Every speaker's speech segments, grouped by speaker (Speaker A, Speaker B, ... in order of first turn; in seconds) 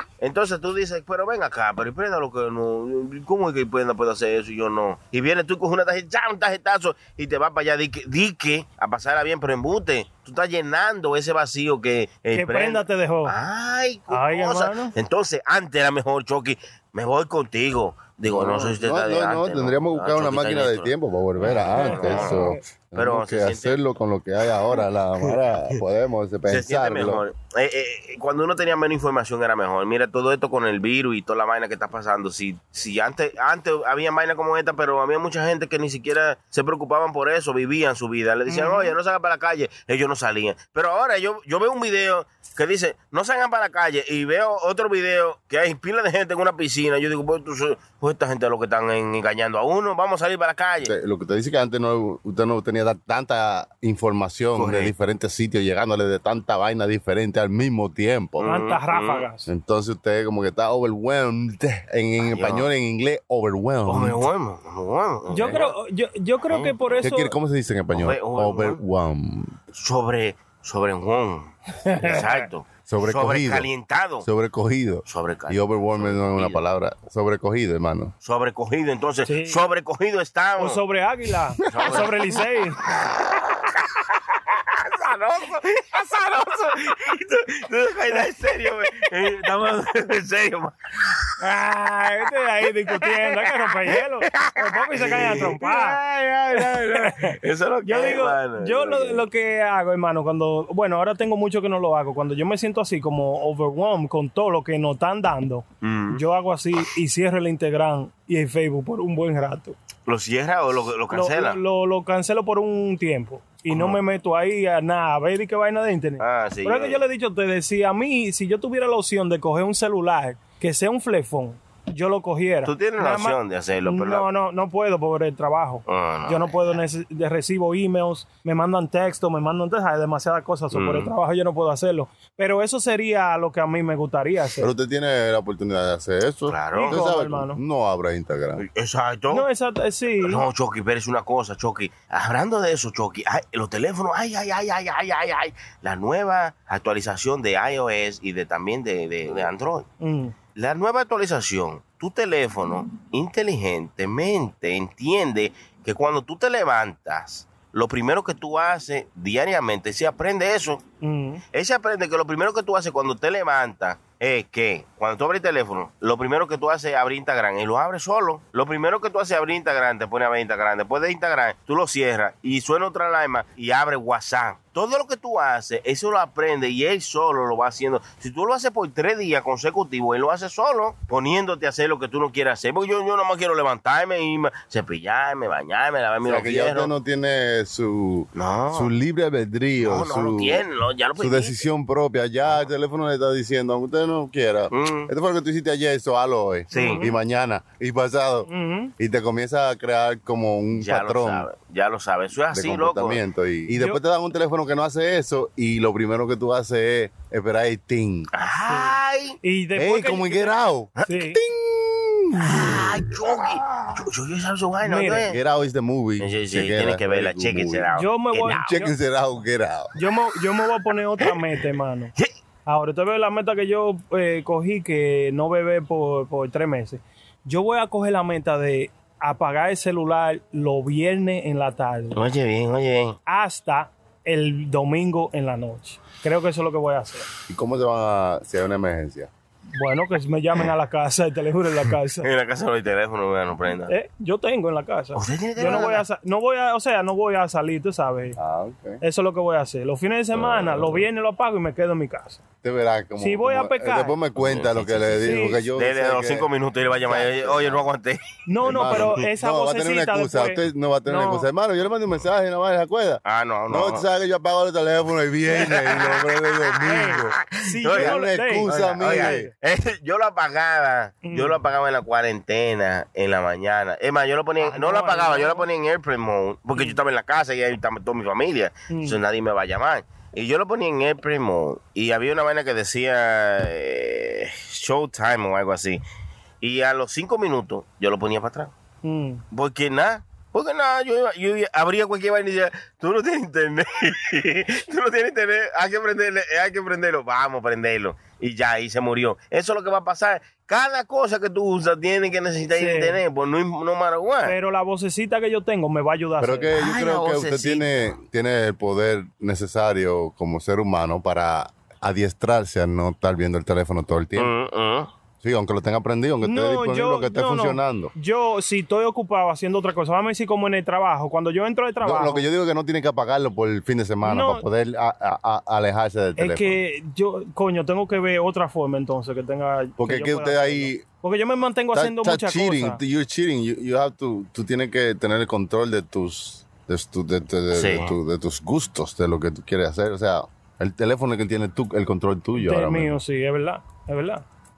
Speaker A: 0.2-23.8, 24.7-25.8, 26.5-50.9, 54.6-54.9, 58.4-59.3, 62.2-62.7, 63.9-65.8, 66.5-67.1, 67.9-68.8, 69.7-74.3, 75.1-76.6, 78.2-80.8, 81.7-91.3, 92.6-99.3, 105.8-106.2, 110.1-111.6, 113.7-114.0, 116.2-117.0, 122.6-124.3, 125.9-126.8, 130.7-131.1, 136.5-137.0, 138.6-139.5, 140.2-149.9, 150.6-160.8, 161.5-186.9, 188.3-188.9, 189.8-191.6, 194.7-195.1, 196.7-197.1, 200.7-203.2, 208.3-209.4, 211.0-211.3, 212.4-215.4, 216.2-218.6, 220.4-222.3, 232.1-233.2, 242.1-243.9, 245.1-246.1, 254.4-259.3, 263.2-264.1, 265.5-286.0, 286.6-288.7, 289.5-304.6, 306.7-307.9, 314.4-315.1, 337.7-338.1
Speaker B: 12.3-13.4, 14.1-14.9, 21.7-22.6, 38.5-39.0, 58.4-59.5, 65.3-67.3, 71.9-72.4, 79.3-79.6, 80.6-82.8, 91.4-96.0, 96.5-109.8, 111.1-134.7, 136.7-137.6, 139.3-140.4, 150.0-150.3, 161.0-161.4, 196.7-197.2, 198.5-198.9, 203.7-204.0, 208.7-211.4, 214.8-215.3, 217.9-218.9, 220.0-222.1, 222.7-232.2, 233.3-237.3, 239.8-242.3, 243.9-248.4, 249.0-252.4, 253.2-254.2, 255.2-255.6, 258.5-261.5, 266.8-269.5, 271.2-271.6, 274.6-275.6, 278.9-279.2, 289.0-289.4, 302.8-303.2, 304.4-306.7, 316.4-322.4, 324.2-324.6, 326.4-333.0, 342.6-344.4
Speaker C: 18.3-27.2, 50.8-58.5, 59.5-64.2, 67.0-69.6, 72.9-73.7, 74.2-78.1, 81.7-82.1, 134.6-138.6, 186.2-190.6, 191.2-201.5, 202.5-208.3, 209.8-213.0, 215.3-217.9, 218.4-219.9, 237.5-239.3, 248.4-249.0, 250.3-251.1, 252.6-256.5, 257.0-257.9, 258.6-269.5, 306.4-314.5, 315.4-318.1, 322.0-326.8, 330.0-331.1, 331.9-343.2